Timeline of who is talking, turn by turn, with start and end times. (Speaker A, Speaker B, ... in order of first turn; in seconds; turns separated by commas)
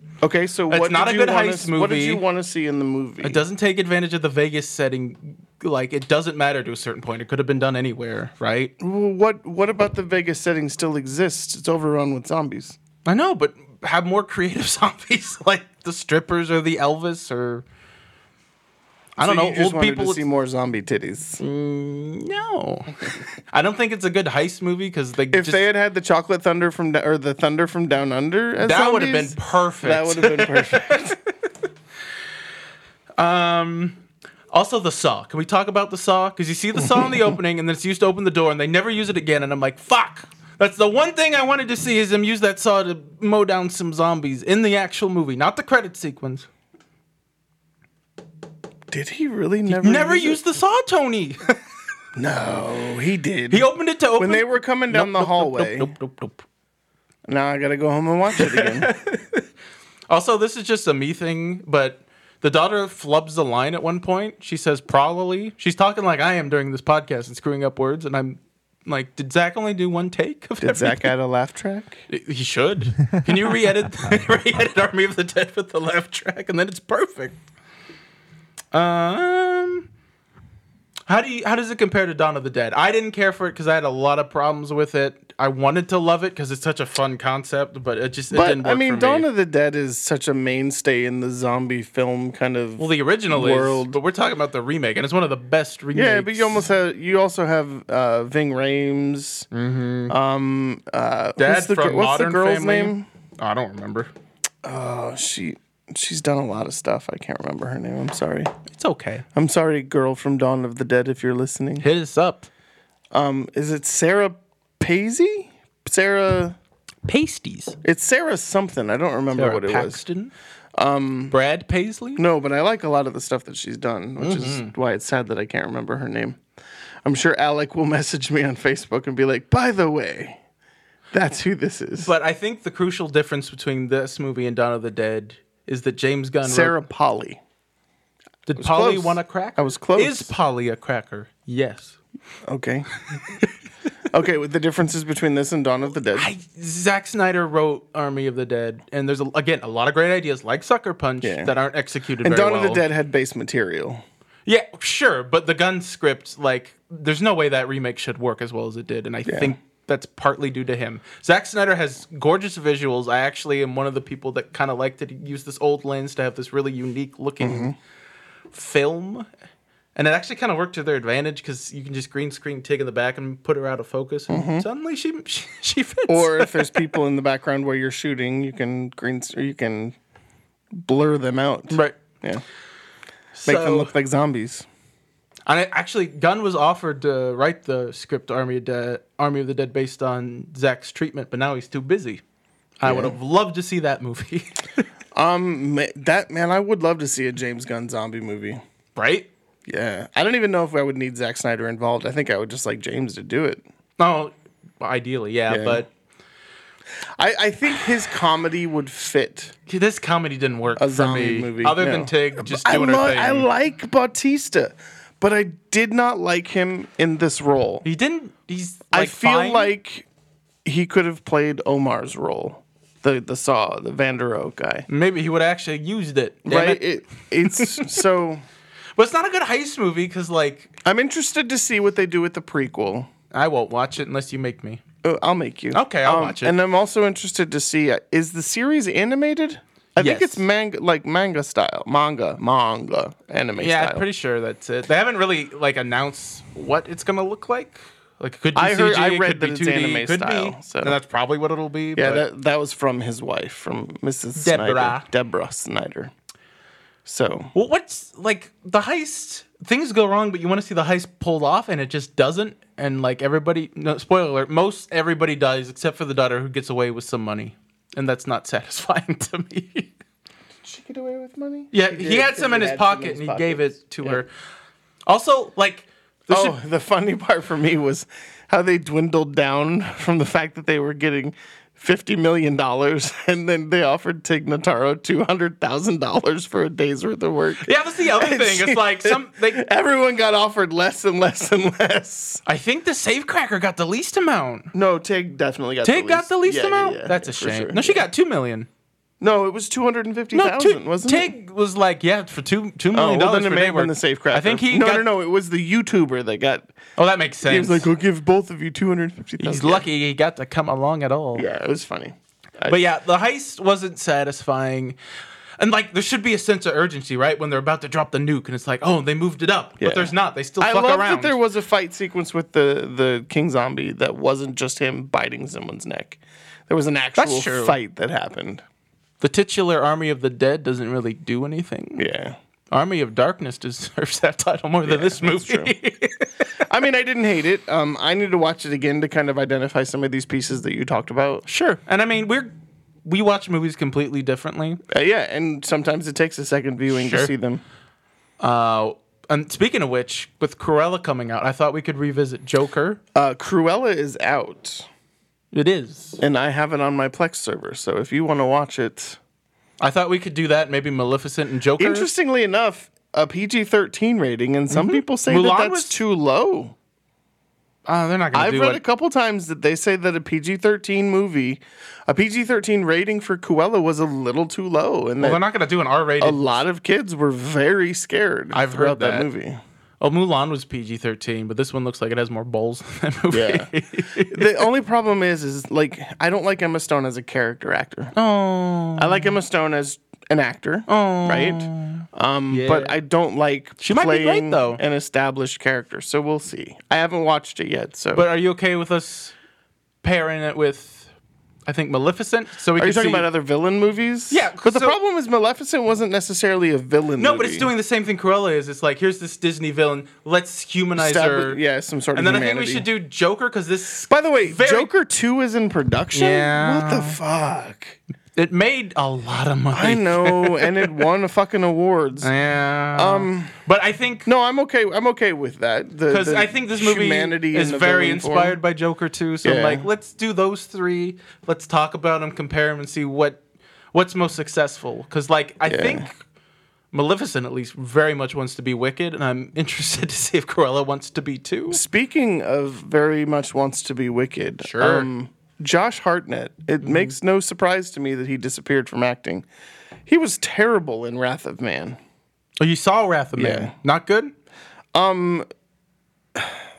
Speaker A: 0.2-3.4, Speaker B: 0.7-2.2, Speaker B: 3.2-8.7, Speaker A: 8.8-12.8, Speaker B: 13.0-17.6, Speaker B: 19.2-20.2, Speaker A: 19.2-21.4, Speaker B: 21.4-25.6, Speaker A: 25.3-31.2, Speaker B: 28.6-31.1, Speaker B: 33.2-34.0, Speaker B: 34.5-46.5, Speaker A: 36.8-37.2, Speaker A: 48.9-50.4, Speaker B: 49.7-51.5, Speaker A: 52.1-55.9, Speaker B: 53.5-56.4, Speaker A: 57.3-58.9, Speaker B: 58.3-59.5, Speaker B: 60.1-71.1, Speaker A: 70.6-72.0, Speaker B: 72.1-77.3, Speaker B: 78.7-79.9, Speaker B: 81.1-89.2, Speaker A: 88.3-94.0, Speaker B: 92.8-96.7, Speaker A: 95.9-99.5, Speaker B: 99.5-100.1, Speaker A: 100.1-103.0, Speaker B: 101.4-104.1, Speaker A: 104.6-108.5, Speaker B: 108.7-109.2, Speaker A: 109.3-111.8, Speaker B: 111.8-112.5, Speaker A: 113.1-116.6, Speaker B: 117.0-117.8, Speaker A: 117.8-120.0, Speaker B: 119.3-120.3, Speaker A: 120.8-121.4, Speaker B: 121.3-122.2, Speaker A: 122.2-126.4, Speaker B: 124.2-124.7, Speaker A: 127.0-130.4, Speaker A: 131.1-132.1, Speaker B: 132.0-136.8, Speaker A: 136.4-137.4, Speaker B: 138.5-142.0, Speaker A: 138.6-140.3, Speaker A: 142.5-142.9, Speaker A: 144.1-146.3, Speaker B: 146.1-152.8, Speaker A: 151.2-151.5, Speaker A: 152.2-154.0, Speaker B: 154.4-167.7, Speaker A: 159.2-159.5, Speaker A: 167.4-167.7, Speaker B: 168.5-169.3, Speaker B: 169.9-176.8, Speaker A: 174.3-174.7, Speaker A: 176.1-179.9, Speaker A: 180.7-182.4, Speaker B: 181.7-181.9, Speaker B: 183.3-183.9, Speaker A: 183.4-184.7, Speaker B: 185.5-192.2, Speaker B: 192.8-194.8, Speaker A: 192.8-193.2, Speaker A: 195.2-198.6, Speaker B: 198.9-199.3, Speaker A: 199.7-203.6, Speaker B: 204.0-205.9, Speaker A: 205.5-205.8, Speaker A: 207.2-209.5, Speaker B: 209.7-213.5, Speaker A: 210.8-217.8, Speaker B: 217.8-219.7, Speaker A: 218.9-220.1, Speaker A: 220.6-224.8, Speaker B: 224.9-226.8, Speaker A: 226.4-228.4, Speaker B: 227.5-227.9, Speaker B: 228.9-230.7, Speaker A: 230.8-233.1, Speaker B: 233.3-234.8, Speaker A: 235.0-244.0, Speaker B: 235.7-236.6, Speaker B: 240.0-240.4, Speaker B: 243.6-252.2, Speaker A: 248.5-251.0, Speaker A: 251.9-256.1, Speaker B: 254.4-255.1, Speaker A: 257.0-257.5, Speaker B: 257.5-269.9, Speaker A: 270.6-274.2, Speaker B: 271.7-274.3, Speaker B: 275.1-276.6, Speaker A: 276.3-292.4, Speaker B: 287.6-289.6, Speaker B: 292.4-294.7, Speaker A: 294.7-298.1, Speaker B: 295.8-298.7, Speaker A: 299.2-301.3, Speaker B: 300.3-305.0, Speaker A: 302.9-306.7, Speaker B: 307.0-307.9, Speaker A: 307.4-309.9, Speaker B: 309.4-311.4, Speaker A: 311.3-312.8, Speaker B: 312.7-314.9, Speaker B: 315.6-321.4, Speaker A: 319.8-328.6, Speaker B: 327.2-327.8, Speaker B: 329.2-332.0, Speaker A: 332.0-332.4, Speaker B: 332.7-336.3, Speaker A: 334.9-335.7, Speaker A: 336.6-341.4, Speaker B: 341.5-342.5, Speaker B: 343.0-344.8, Speaker A: 344.9-347.6, Speaker B: 346.9-347.3, Speaker B: 348.4-353.0, Speaker A: 353.1-354.9, Speaker B: 355.5-356.2, Speaker A: 356.2-359.2, Speaker B: 359.8-362.1, Speaker A: 361.8-366.7, Speaker B: 364.7-365.9, Speaker B: 367.9-368.8, Speaker A: 368.3-375.4, Speaker B: 375.2-376.4, Speaker A: 376.2-379.6, Speaker B: 378.5-379.3, Speaker B: 380.0-384.6, Speaker A: 383.3-383.7, Speaker A: 384.2-388.1, Speaker B: 388.1-389.3, Speaker A: 388.9-398.2, Speaker B: 390.9-392.9, Speaker B: 393.8-394.8, Speaker B: 398.1-399.3, Speaker B: 400.0-401.1, Speaker B: 401.6-403.3, Speaker A: 402.8-407.7, Speaker B: 404.3-405.0, Speaker B: 407.2-411.6, Speaker A: 411.0-412.9, Speaker B: 412.1-414.9, Speaker A: 414.1-418.0, Speaker B: 416.1-417.2, Speaker B: 418.4-420.9, Speaker A: 419.7-422.3, Speaker B: 422.2-424.3, Speaker A: 422.9-423.6, Speaker A: 424.2-428.6, Speaker B: 426.1-433.4, Speaker A: 429.4-429.9, Speaker B: 433.9-436.1, Speaker A: 435.7-436.1, Speaker B: 436.9-441.8, Speaker A: 441.7-449.4, Speaker B: 444.6-445.1, Speaker B: 446.8-447.1, Speaker A: 450.1-452.0, Speaker B: 452.6-454.3, Speaker A: 453.4-453.7, Speaker A: 454.9-455.4